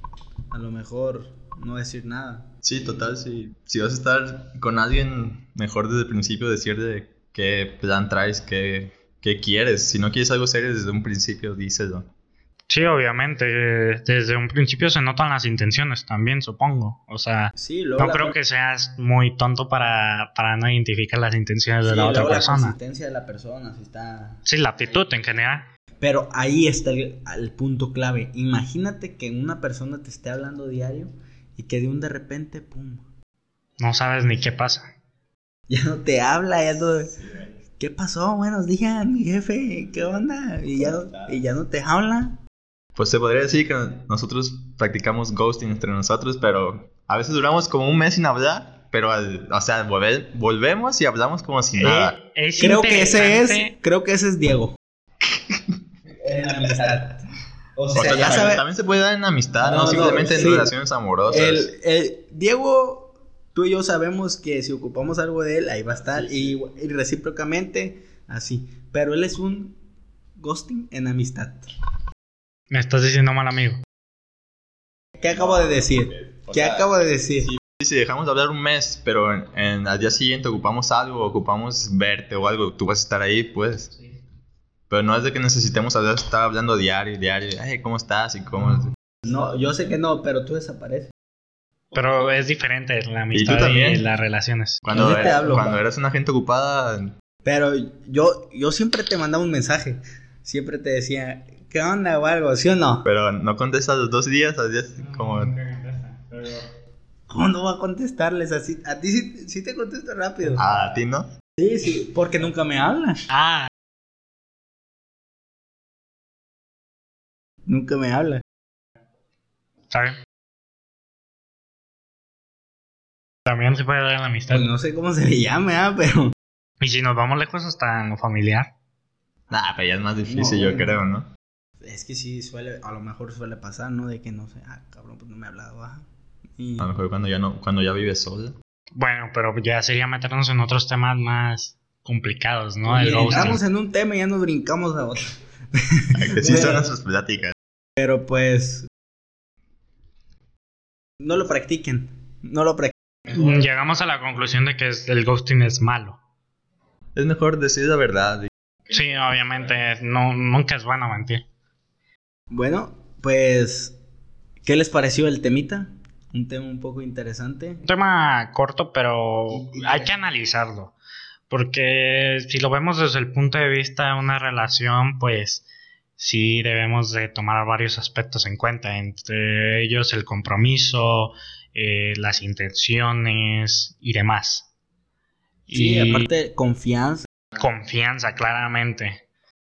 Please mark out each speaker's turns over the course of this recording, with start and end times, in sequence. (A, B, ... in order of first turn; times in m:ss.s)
0:00.5-0:02.5 A
0:02.6-0:12.1 B
0:12.7-0:22.8 C
0:17.6-0:18.3 A
0:21.8-0:24.4 A
0:24.4-0:25.7 C
0:26.0-0:33.0 A
0:33.8-0:34.9 C
0:35.7-0:37.2 A
0:37.8-0:42.4 A
0:43.0-0:52.2 B
0:51.8-0:53.7 C
0:52.6-0:54.7 A
0:56.2-0:57.2 A
0:57.8-0:58.6 A
0:57.9-1:01.7 B
0:59.6-1:00.7 A
1:01.3-1:09.7 A
1:10.4-1:11.7 A
1:12.7-1:13.8 C
1:15.2-1:17.5 A
1:15.3-1:16.9 B
1:17.4-1:23.9 B
1:24.9-1:28.9 B
1:29.2-1:31.1 A
1:31.9-1:34.8 C
1:33.3-1:34.0 B
1:34.8-1:37.1 B
1:34.9-1:35.8 A
1:37.4-1:43.0 A
1:43.0-1:45.5 B
1:45.0-1:46.7 C
1:47.3-1:50.6 A
1:50.6-1:51.3 B
1:51.6-1:53.2 A
1:53.3-1:53.7 C
1:57.6-1:58.4 A
1:59.9-2:00.2 C
2:03.4-2:04.7 C
2:04.5-2:06.3 A
2:06.8-2:08.7 C
2:09.5-2:11.3 B
2:10.2-2:11.0 A
2:11.8-2:16.0 A
2:16.6-2:16.9 A
2:16.8-2:18.6 B
2:18.9-2:23.6 C
2:22.8-2:25.8 A
2:26.1-2:27.5 B
2:26.4-2:26.9 A
2:28.0-2:28.9 A
2:31.2-2:32.9 A
2:33.3-2:36.2 C
2:37.1-2:38.5 B
2:38.9-2:41.4 C
2:42.5-2:44.0 A
2:44.6-2:47.8 A
2:47.8-2:50.9 C
2:49.5-2:50.1 A
2:51.5-2:55.6 C
2:56.2-3:04.7 C
3:05.7-3:06.3 C
3:05.7-3:07.3 A
3:07.5-3:09.2 C